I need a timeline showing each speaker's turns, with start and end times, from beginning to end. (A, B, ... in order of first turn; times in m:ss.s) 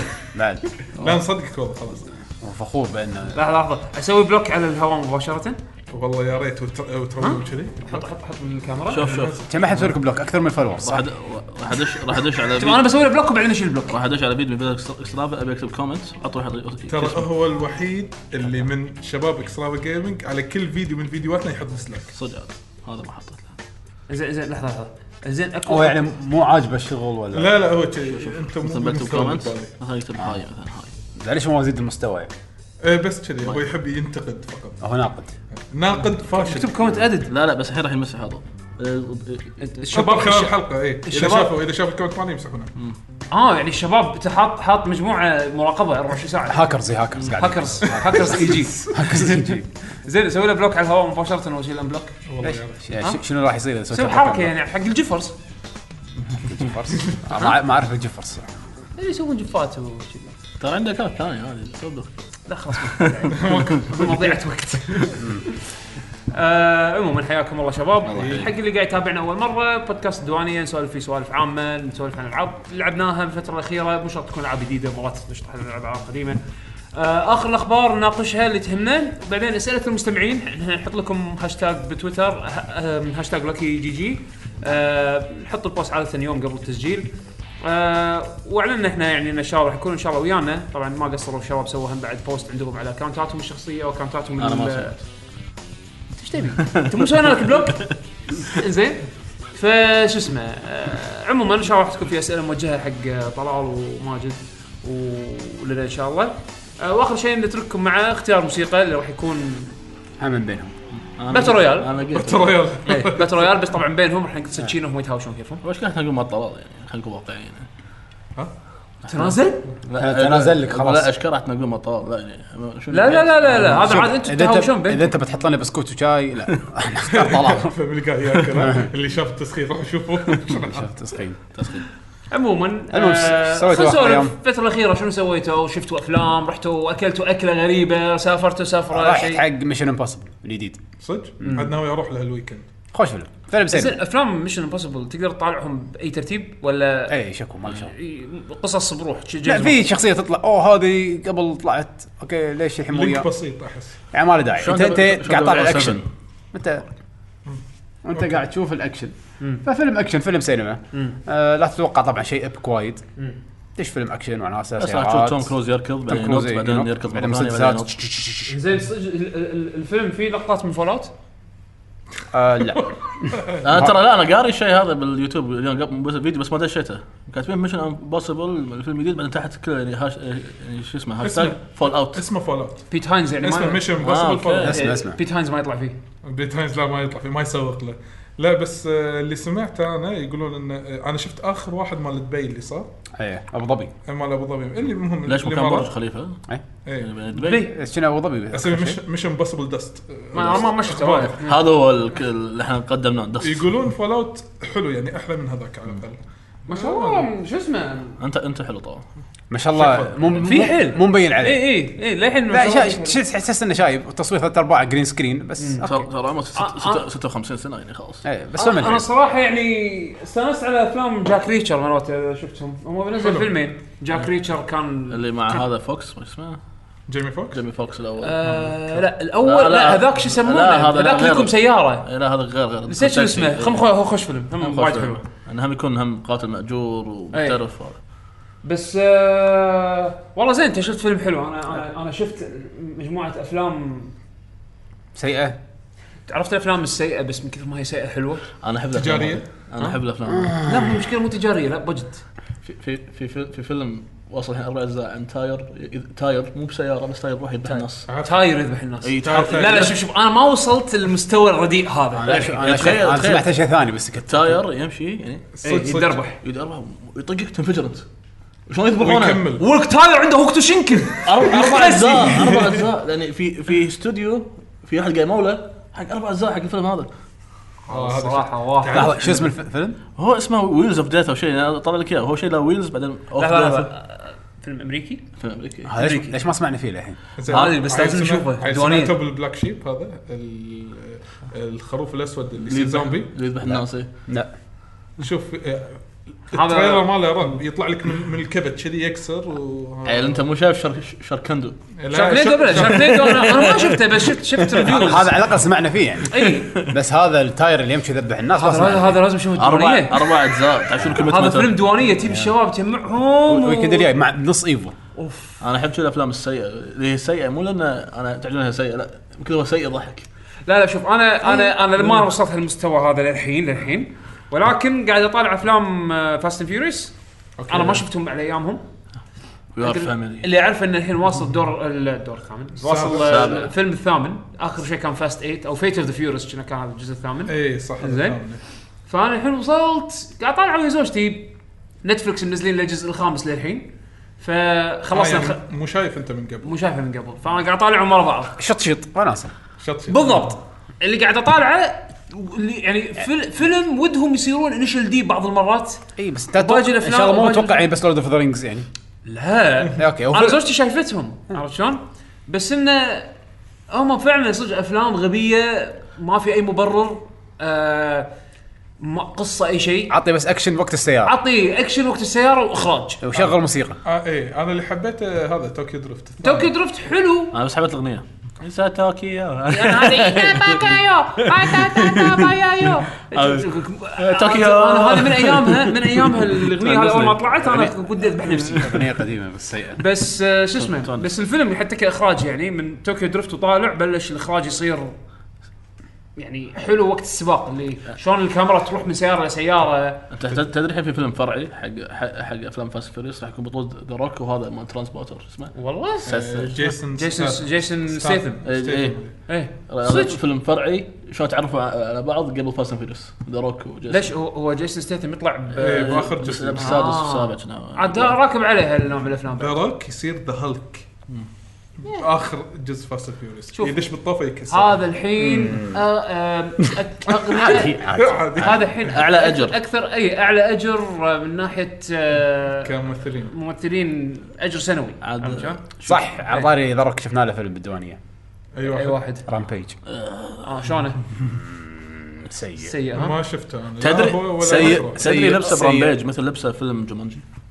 0:00.3-0:00.6 A
0:01.0-0:01.2 B
0:01.0-0:02.1 C
0:02.4-0:03.4 A
0:03.3-0:05.6 D
0:05.9-0:08.1 C
0:07.2-0:09.0 D
0:08.9-0:09.4 B
0:08.9-0:09.5 C
0:09.4-0:11.1 A
0:10.8-0:12.8 B
0:12.6-0:14.0 D
0:13.9-0:17.3 B
0:16.9-0:22.1 C
0:22.1-0:23.4 B
0:24.1-0:26.0 D
0:25.7-0:27.6 A
0:27.3-0:29.7 C
0:28.1-0:30.9 B
0:31.1-0:32.3 A
0:32.8-0:34.8 C
0:34.8-0:35.3 A
0:35.7-0:36.8 C
0:36.3-0:37.3 D
0:37.3-0:39.6 B
0:39.6-0:41.5 D
0:39.9-0:42.7 C
0:43.3-0:49.4 D
0:46.5-0:49.7 A
0:50.0-0:52.2 D
0:52.3-0:52.8 C
0:52.4-0:54.5 A
0:53.9-0:55.3 D
0:56.4-0:58.5 A
0:59.0-1:00.3 D
1:00.6-1:02.1 B
1:02.5-1:05.5 D
1:02.8-1:03.5 B
1:03.3-1:04.3 C
1:06.3-1:16.4 D
1:08.0-1:08.5 B
1:08.2-1:08.4 C
1:16.9-1:27.1 D
1:27.6-1:35.0 D
1:34.4-1:35.0 B
1:36.2-1:49.7 D
1:36.6-1:37.9 B
1:50.2-1:50.7 A
1:51.2-1:52.7 B
1:51.3-1:51.9 D
1:52.1-1:53.3 C
1:52.8-1:55.6 D
1:55.6-1:57.7 B
1:59.0-1:59.6 D
1:59.9-2:03.7 B
2:00.0-2:01.1 A
2:02.9-2:05.1 D
2:03.6-2:07.7 A
2:07.1-2:10.9 C
2:08.5-2:08.9 A
2:10.5-2:11.4 A
2:11.5-2:11.8 B
2:12.3-2:19.4 D
2:12.9-2:14.3 A
2:18.9-2:20.8 A
2:21.0-2:22.6 C
2:21.4-2:21.7 A
2:22.9-2:24.0 A
2:23.7-2:27.1 D
2:27.1-2:27.9 A
2:27.8-2:29.8 D
2:29.4-2:33.3 A
2:32.9-2:34.0 C
2:34.1-2:36.0 A
2:34.6-2:36.1 B
2:36.5-2:36.9 A
2:38.0-2:43.0 A
2:43.8-2:45.5 A
2:44.8-2:48.0 B
2:46.0-2:48.6 A
2:48.5-2:51.1 D
2:52.3-2:53.9 A
2:53.6-3:02.2 B
3:01.2-3:02.8 C
3:02.9-3:03.9 D
3:03.4-3:04.8 C
3:04.0-3:04.8 B
3:04.6-3:05.2 A
3:04.7-3:06.0 D
3:06.2-3:12.9 C
3:13.2-3:13.9 A
3:14.0-3:15.9 C
3:15.2-3:16.4 B
3:16.8-3:17.1 C
3:17.0-3:17.6 B
3:17.3-3:17.7 D
3:17.6-3:19.0 A
3:18.5-3:21.4 C
3:20.3-3:21.6 D
3:21.4-3:23.7 B
3:23.4-3:27.3 C
3:26.7-3:28.2 D
3:28.2-3:29.0 B
3:29.5-3:31.8 A
3:29.7-3:30.3 C
3:30.4-3:33.2 D
3:32.5-3:36.1 A
3:35.6-3:35.8 D
3:35.8-3:38.2 B
3:36.6-3:37.0 D
3:38.2-3:39.0 A
3:38.6-3:45.6 D
3:43.2-3:43.5 C
3:45.1-3:46.6 B
3:47.1-3:47.6 C
3:47.5-3:48.4 B
3:48.2-3:52.0 D
3:48.4-3:49.0 C
3:49.4-3:53.8 B
3:52.9-3:55.2 D
3:54.6-3:58.0 B
3:57.3-3:57.6 D
3:58.6-4:04.1 D
4:05.1-4:05.6 A
4:06.3-4:08.4 D
4:08.6-4:10.6 B
4:08.9-4:09.4 C
4:10.3-4:10.7 A
4:10.5-4:12.2 D
4:12.6-4:18.1 B
4:17.7-4:22.7 D
4:18.1-4:18.4 C
4:19.0-4:20.0 B
4:19.2-4:20.0 C
4:22.2-4:24.6 A
4:22.5-4:23.5 B
4:24.3-4:25.5 B
4:25.5-4:26.2 C
4:25.6-4:26.4 D
4:26.4-4:28.0 B
4:28.7-4:29.5 B
4:29.0-4:29.6 C
4:29.6-4:32.6 D
4:31.2-4:37.1 B
4:37.9-4:39.5 C
4:37.9-4:39.1 D
4:38.9-4:40.0 A
4:40.2-4:43.9 B
4:43.4-4:45.2 D
4:45.4-4:45.9 B
4:45.9-4:47.2 A
4:46.0-4:46.4 D
4:47.4-4:53.3 C
4:47.5-4:49.2 D
4:52.6-4:54.1 B
4:55.2-5:00.4 C
4:56.5-4:57.2 D
5:00.0-5:01.8 B
5:02.0-5:03.4 C
5:02.1-5:05.3 D
5:02.7-5:05.3 B
5:04.8-5:09.2 A
5:06.3-5:06.7 D
5:06.5-5:06.9 B
5:08.6-5:10.5 D
5:09.5-5:11.8 B
5:11.1-5:14.1 D
5:12.2-5:12.5 A
5:13.5-5:14.9 A
5:15.2-5:15.6 D
5:15.6-5:20.3 B
5:20.6-5:27.1 D
5:27.6-5:28.0 C
5:27.7-5:28.8 D
5:29.7-5:30.5 B
5:29.8-5:38.4 D
5:32.8-5:33.6 C
5:33.1-5:33.7 B
5:37.5-5:38.6 C
5:39.1-5:41.5 D
5:42.0-5:45.6 D
5:45.1-5:46.7 C
5:46.6-5:48.6 D
5:48.6-5:49.5 A
5:49.8-5:50.5 C
5:50.1-5:57.8 D
5:56.2-5:58.9 A
5:59.2-6:03.3 D
6:00.0-6:00.6 A
6:03.9-6:08.3 D
6:09.0-6:10.1 D
6:10.1-6:11.4 A
6:11.2-6:13.2 D
6:13.2-6:14.0 A
6:14.0-6:16.7 C
6:16.4-6:17.6 D
6:17.5-6:27.4 B
6:19.7-6:29.0 D
6:27.1-6:30.0 A
6:30.0-6:35.1 D
6:30.8-6:31.3 B
6:36.4-6:40.2 D
6:40.3-6:45.7 B
6:45.7-6:46.3 D
6:46.2-6:46.9 B
6:46.2-6:49.3 C
6:47.2-6:48.6 D
6:48.6-6:49.2 B
6:49.5-6:50.4 D
6:49.9-6:54.3 B
6:54.1-6:59.8 D
6:55.7-6:57.1 C
6:55.8-6:58.4 B
6:59.6-7:01.0 C
7:02.0-7:05.0 C
7:03.7-7:04.0 D
7:04.7-7:08.0 D
7:05.4-7:06.0 A
7:07.5-7:08.8 A
7:07.6-7:09.2 C
7:08.6-7:12.9 D
7:09.1-7:09.8 B
7:12.8-7:13.5 C
7:13.5-7:15.8 D
7:15.2-7:16.2 B
7:16.0-7:18.2 A
7:18.7-7:19.2 C
7:18.9-7:19.4 D
7:19.5-7:19.9 A
7:20.1-7:20.6 B
7:20.6-7:21.2 D
7:21.5-7:23.0 A
7:22.8-7:23.4 D
7:23.1-7:25.2 C
7:24.0-7:27.4 B
7:24.6-7:26.2 A